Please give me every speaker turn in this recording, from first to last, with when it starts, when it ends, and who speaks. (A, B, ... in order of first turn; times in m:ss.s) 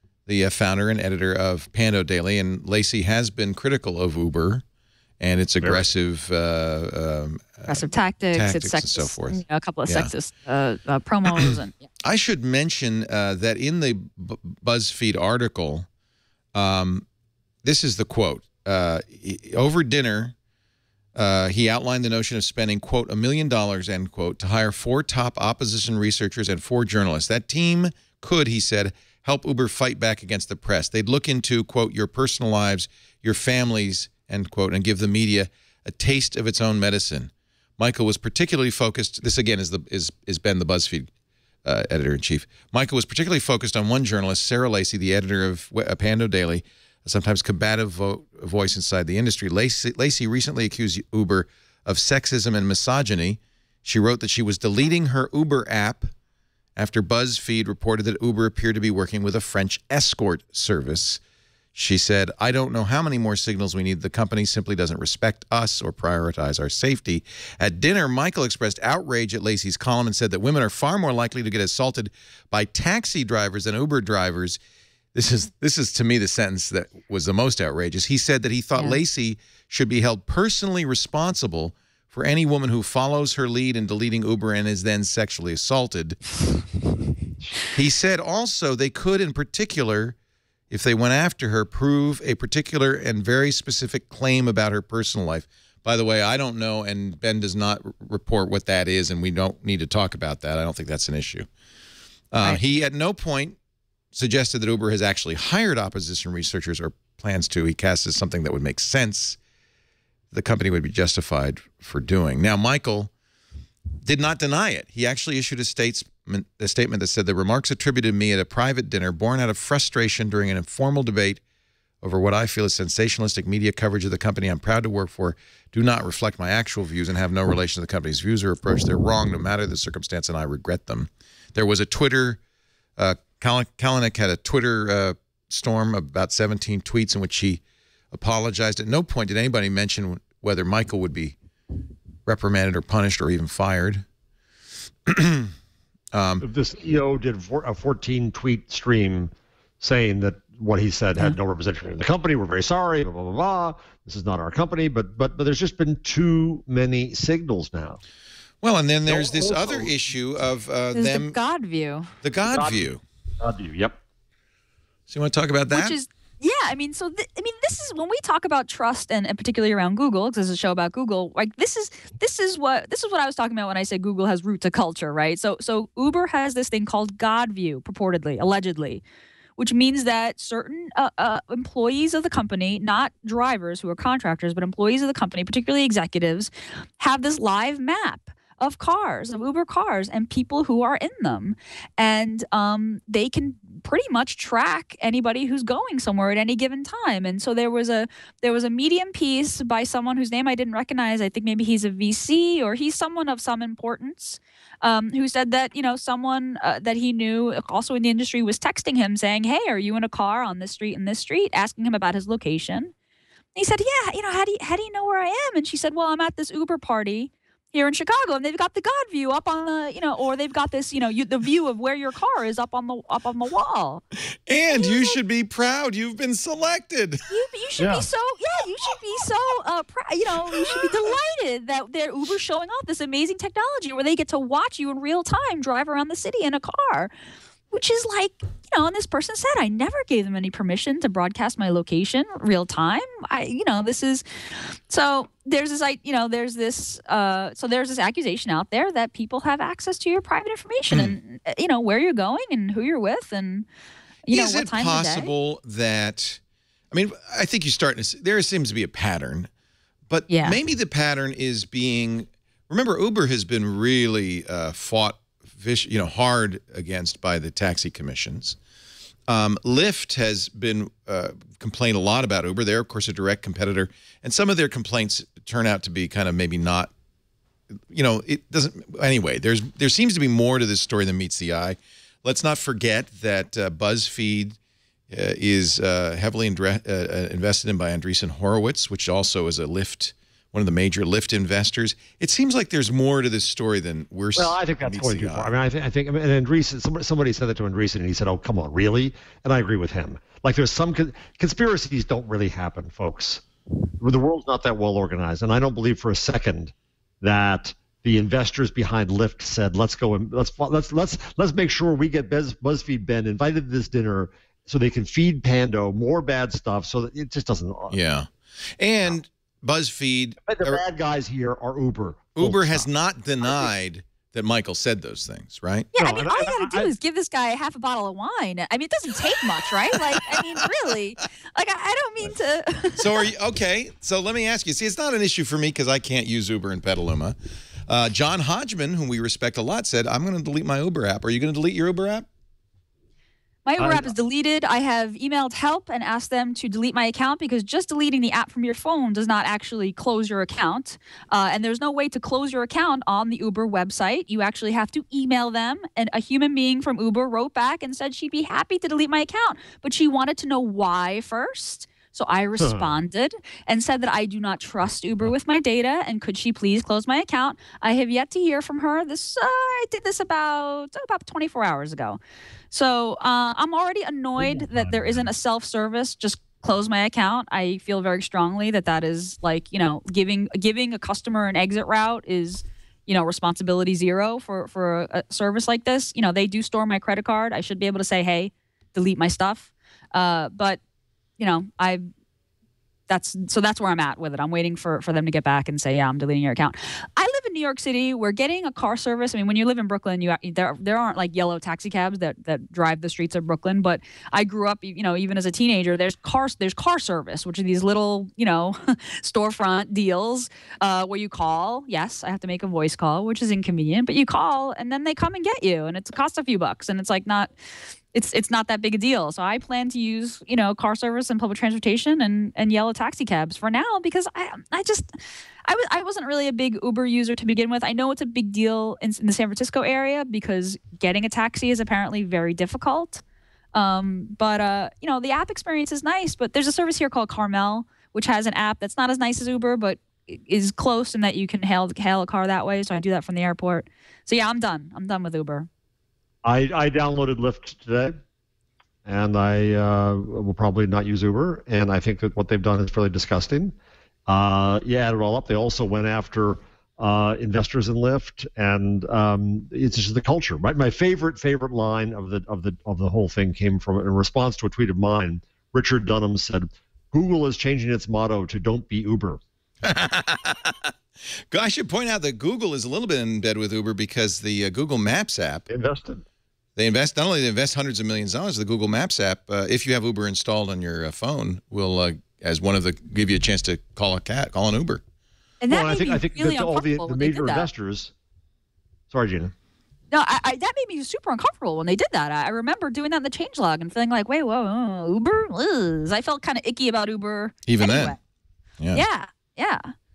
0:00.3-0:04.6 A
0:05.2-0:10.1 A
0:05.6-0:05.9 B
0:07.7-0:11.8 C
0:12.0-0:15.9 A
0:16.5-0:17.0 A
0:17.6-0:20.4 A
0:21.2-0:41.1 A
0:41.6-0:56.1 A
0:56.8-1:01.2 A
1:01.7-1:14.6 A
1:15.1-1:26.2 A
1:27.7-1:30.2 A
1:30.7-1:41.5 A
1:42.3-1:43.6 A
1:44.1-1:49.4 A
1:50.3-1:53.1 A
1:54.0-2:01.4 A
2:02.0-2:12.4 A
2:13.0-2:17.6 A
2:18.1-2:21.4 A
2:22.3-2:24.0 A
2:25.1-2:25.5 A
2:26.1-2:26.4 A
2:26.4-2:38.0 B
2:38.6-2:41.3 A
2:39.1-2:39.9 B
2:40.9-2:42.1 C
2:42.2-2:43.0 A
2:42.4-2:42.9 B
2:43.4-2:44.0 B
2:45.1-2:46.0 A
2:45.7-2:59.0 C
2:59.6-3:32.9 C
3:33.6-3:44.0 C
3:44.5-3:47.2 A
3:44.7-3:45.2 C
3:47.3-3:57.1 C
3:47.8-3:48.1 B
3:57.7-4:04.2 C
4:04.9-4:13.7 C
4:14.2-4:15.3 C
4:14.3-4:16.4 A
4:16.9-4:19.5 A
4:20.1-4:28.6 A
4:20.3-4:20.6 C
4:29.3-4:36.9 A
4:37.9-4:44.6 A
4:45.1-4:55.5 A
4:54.4-5:03.4 B
5:04.0-5:18.0 B
5:17.9-5:20.8 A
5:20.5-5:22.9 B
5:22.4-5:25.9 A
5:23.4-5:23.7 B
5:25.9-5:33.3 C
5:26.0-5:26.9 B
5:29.9-5:30.4 A
5:33.0-5:37.4 A
5:37.9-5:42.3 A
5:43.7-6:12.2 C
5:43.8-5:44.1 B
6:02.6-6:03.0 B
6:12.7-6:30.8 C
6:14.4-6:15.3 B
6:31.4-6:32.1 C
6:33.1-6:57.5 C
6:58.1-7:05.1 C
7:05.6-7:13.2 C
7:13.7-7:25.7 C
7:26.4-7:28.2 B
7:29.0-7:33.8 B
7:34.3-7:49.4 B
7:49.8-7:50.9 A
7:51.5-7:55.7 A
7:55.7-7:56.2 B
7:56.8-8:05.0 A
8:05.6-8:07.7 C
8:05.7-8:08.1 B
8:09.1-8:09.5 B
8:10.1-8:18.2 C
8:17.7-8:18.2 A
8:18.9-8:19.9 C